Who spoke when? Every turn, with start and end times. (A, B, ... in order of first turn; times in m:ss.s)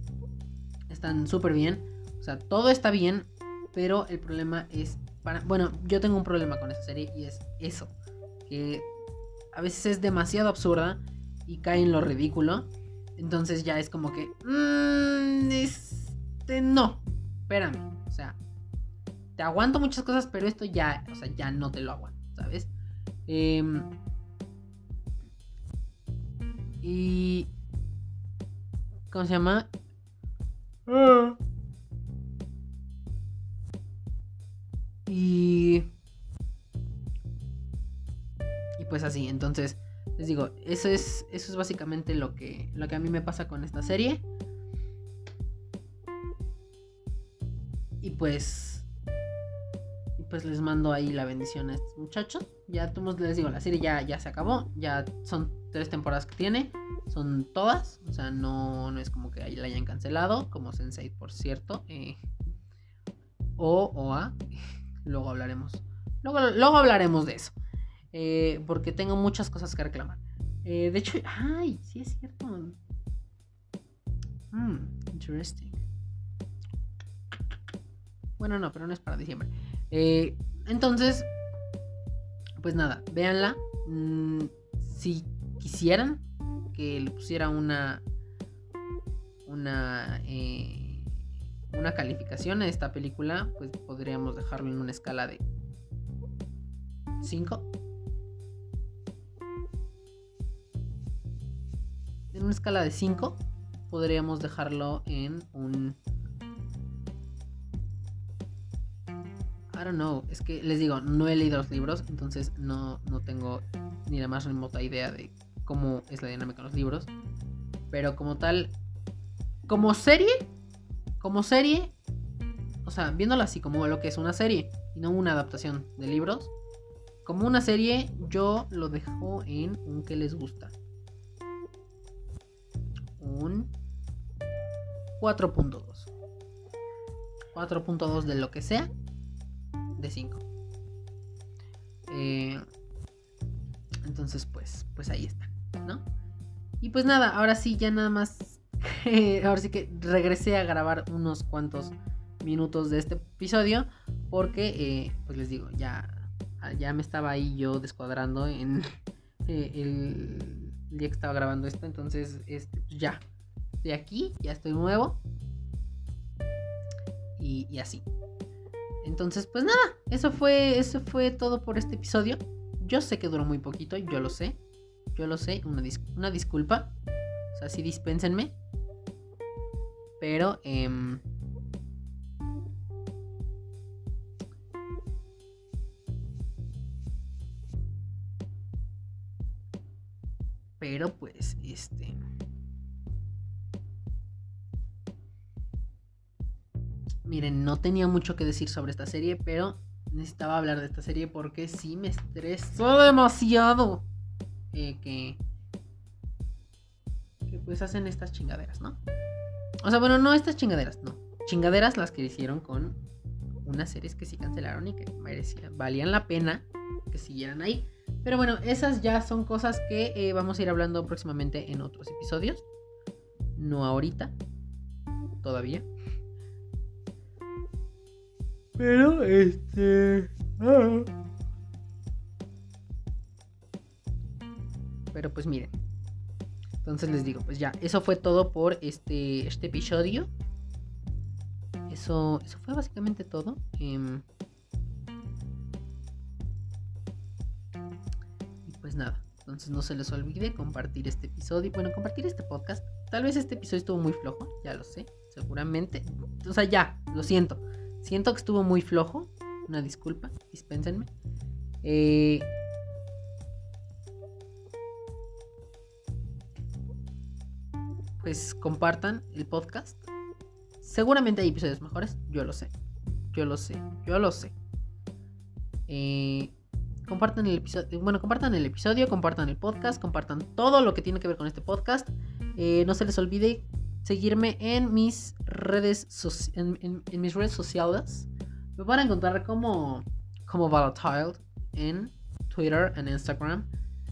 0:00.9-0:07.9 A
0:08.4-0:08.9 A
0:09.5-0:18.4 A
0:19.4-0:22.7 A
0:23.3-0:23.9 A
0:26.8-0:27.5 A
0:29.1-0:29.7 A
0:30.9-0:31.4 A
0:35.0-0:35.9 A
0:38.8-0:44.2 A
0:48.0-0:48.9 A
0:50.2-1:02.2 A
1:03.6-1:07.5 A
1:08.1-1:12.8 A
1:14.5-1:15.8 A
1:18.4-1:21.3 A
1:22.6-1:28.0 A
1:29.4-1:31.1 A
1:31.7-1:35.4 A
1:37.2-1:37.7 A
1:42.3-1:46.0 A
1:49.7-1:57.1 A
1:57.9-1:58.7 A
1:59.7-2:00.5 A
2:01.2-2:01.9 A
2:02.8-2:06.5 A
2:07.2-2:10.7 A
2:13.2-2:13.7 A
2:15.2-2:16.1 A
2:17.5-2:18.9 A
2:20.0-2:20.4 A
2:22.1-2:22.6 A
2:24.0-2:26.0 A
2:26.8-2:38.9 A
2:39.4-2:43.2 A
2:43.8-2:45.2 A
2:47.4-2:48.0 A
2:49.0-2:54.6 A
2:55.2-2:56.9 A
2:57.5-2:58.6 A
3:00.2-3:01.2 A
3:10.8-3:12.2 A
3:17.2-3:24.0 A
3:24.7-3:25.4 A
3:27.5-3:29.0 A
3:29.8-3:33.0 A
3:33.6-3:42.6 A
3:43.6-3:44.3 A
3:45.4-3:45.9 A
3:48.8-3:51.1 A
3:55.1-3:55.7 A
3:56.8-4:00.3 A
4:01.9-4:04.2 A
4:08.6-4:21.1 A
4:21.8-4:22.5 A
4:28.2-4:30.0 A
4:30.8-4:32.7 A
4:33.3-4:34.5 A
4:35.9-4:36.5 A
4:37.0-4:53.7 A